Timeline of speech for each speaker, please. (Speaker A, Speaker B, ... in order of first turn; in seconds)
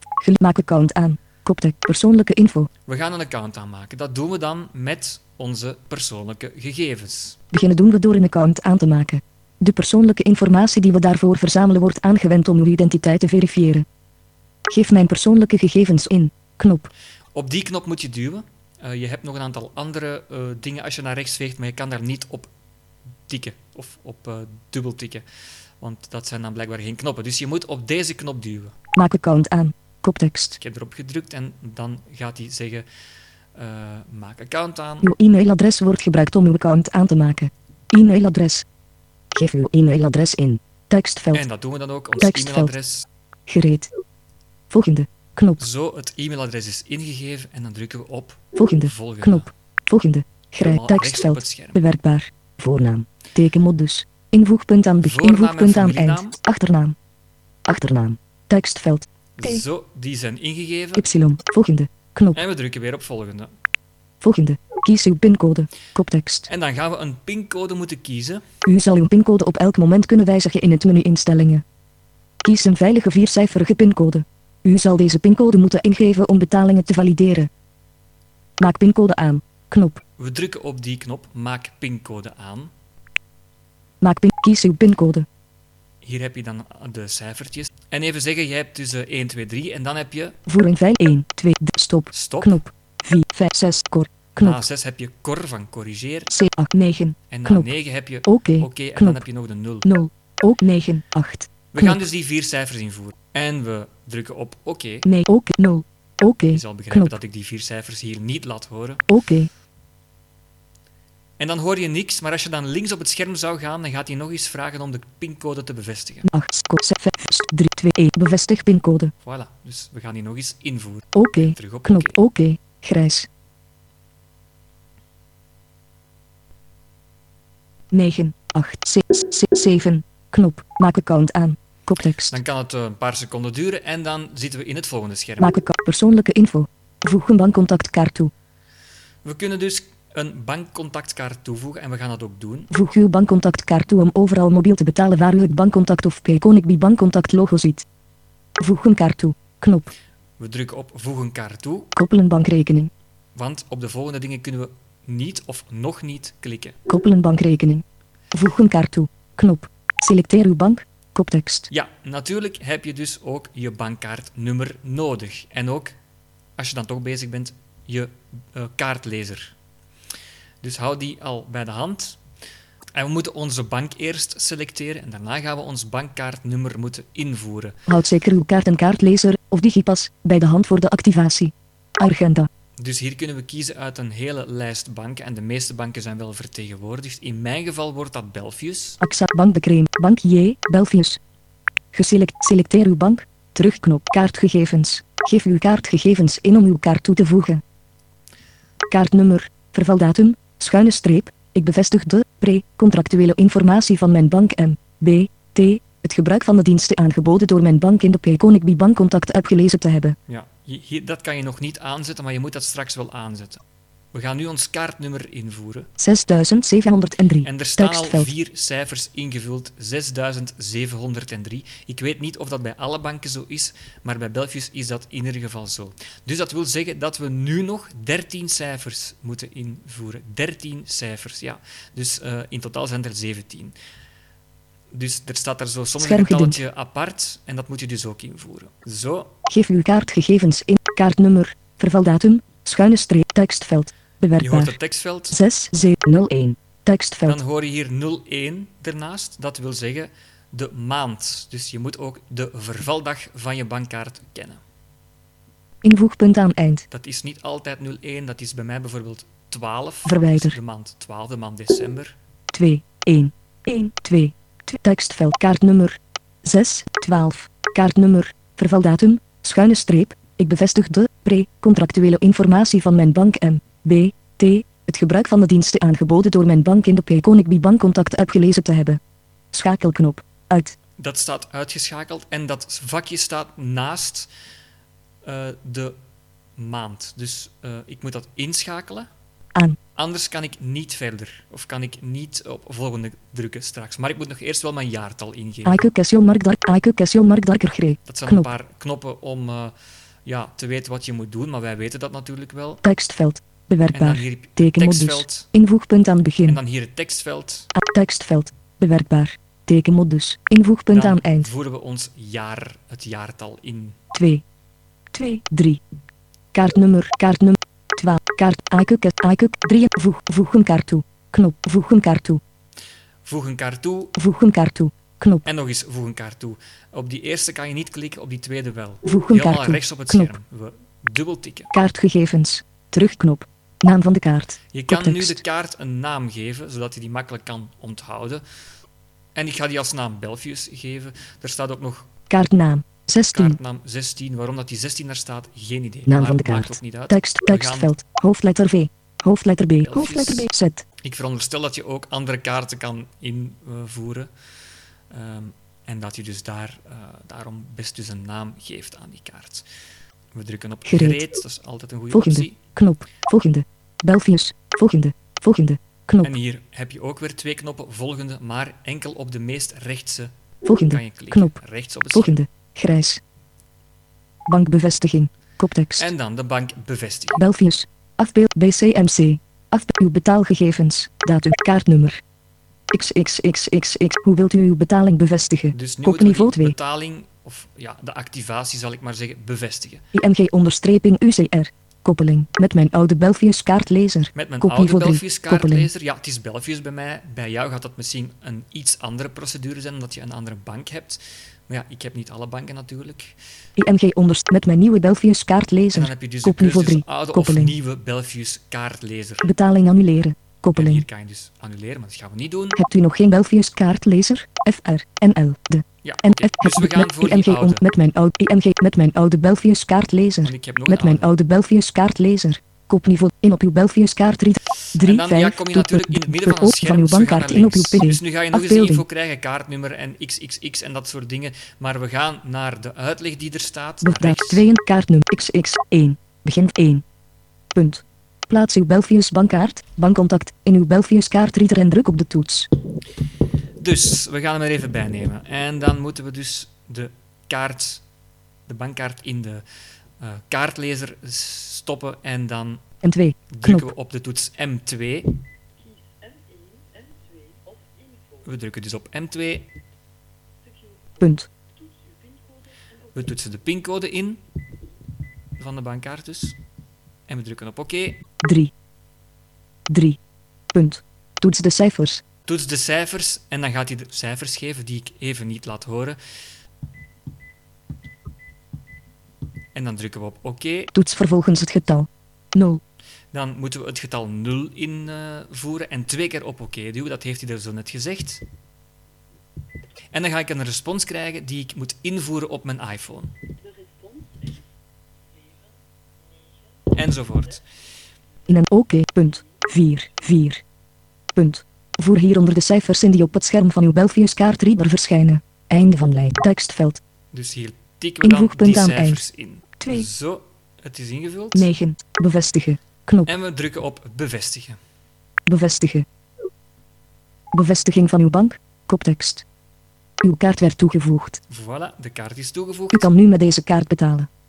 Speaker A: 0.2-2.7, 7.5-13.8, 14.7-16.9, 28.9-30.6, 35.0-38.6, 39.3-41.5, 42.2-42.7, 43.5-43.9, 44.7-45.6, 48.5-57.0, 57.7-59.6, 61.0-62.4, 64.2-66.5, 68.6-71.6, 72.4-77.5, 78.6-80.0, 84.0-85.3, 90.5-94.6, 96.3-97.7, 98.2-99.2, 99.8-102.0, 105.0-107.2, 109.1-109.5, 116.2-119.1, 121.1-123.3, 127.9-132.4, 135.4-138.3, 142.7-147.8, 148.6-149.9, 151.9-152.9, 156.9-161.7, 177.9-182.5, 189.0-191.2, 191.9-197.6, 198.9-210.2, 216.0-218.3, 236.0-236.6, 239.5-244.8, 245.3-247.4, 255.8-256.9, 260.0-260.6, 262.5-279.0, 279.5-280.7, 295.6-298.5, 302.8-306.6, 307.8-311.5, 314.1-314.4, 315.1-315.8, 316.5-322.4, 324.2-325.5, 329.0-330.3, 331.7-335.4, 342.3-343.6, 346.1-350.8, 360.9-361.2, 362.1-366.3, 370.6-371.6, 372.1-373.2, 374.5-376.1, 377.4-382.2, 382.9-386.8, 390.1-395.9, 403.8-407.7, 409.4-411.1, 412.8-429.0, 434.0-437.0, 437.7-442.7, 453.0-453.9, 461.2-461.5, 468.4-468.7, 469.9-470.2, 470.7-472.2, 480.9-482.8, 498.5-500.6, 501.3-507.0, 508.2-509.2, 509.8-510.1, 511.5-513.3, 515.5-516.0, 517.5-519.4, 520.2-521.4, 522.9-524.3
Speaker B: 2.9-7.4, 17.3-22.5, 23.3-25.2, 25.8-28.7, 30.6-32.9, 33.5-35.1, 41.3-43.1, 45.6-49.5, 50.6-51.8, 55.0-56.4, 59.4-61.0, 62.3-63.5, 66.5-68.4, 80.2-82.7, 86.0-90.4, 92.1-92.6, 94.3-96.3, 97.3-99.9, 101.7-105.1, 106.5-109.1, 111.4-116.3, 119.2-122.2, 132.3-135.5, 139.2-142.7, 150.4-151.9, 153.3-156.8, 161.7-165.9, 166.6-169.5, 170.6-172.2, 172.9-177.8, 182.8-189.0, 210.3-213.6, 214.1-215.9, 217.4-233.7, 234.9-239.3, 244.4-245.4, 247.2-254.6, 256.9-262.1, 281.0-284.3, 285.2-286.0, 286.6-289.1, 289.9-295.9, 298.1-299.7, 300.2-302.8, 303.9-305.5, 306.4-307.7, 310.9-313.9, 323.2-324.1, 325.4-331.7, 334.7-338.4, 339.4-342.1, 343.3-347.9, 349.8-350.5, 351.0-354.3, 355.1-359.6, 360.3-362.6, 366.2-372.4, 376.0-377.4, 385.7-390.0, 394.3-403.3, 405.9-409.5, 410.7-412.8, 416.0-417.8, 420.4-421.4, 424.9-434.6, 443.8-448.0, 448.7-449.6, 450.2-452.8, 453.5-455.4, 458.4-459.7, 463.1-464.4, 465.6-466.6, 467.3-468.2, 472.5-476.2, 479.7-480.9, 483.3-488.4, 490.1-493.4, 496.9-497.6, 507.3-511.7, 513.2-514.8, 521.5-523.1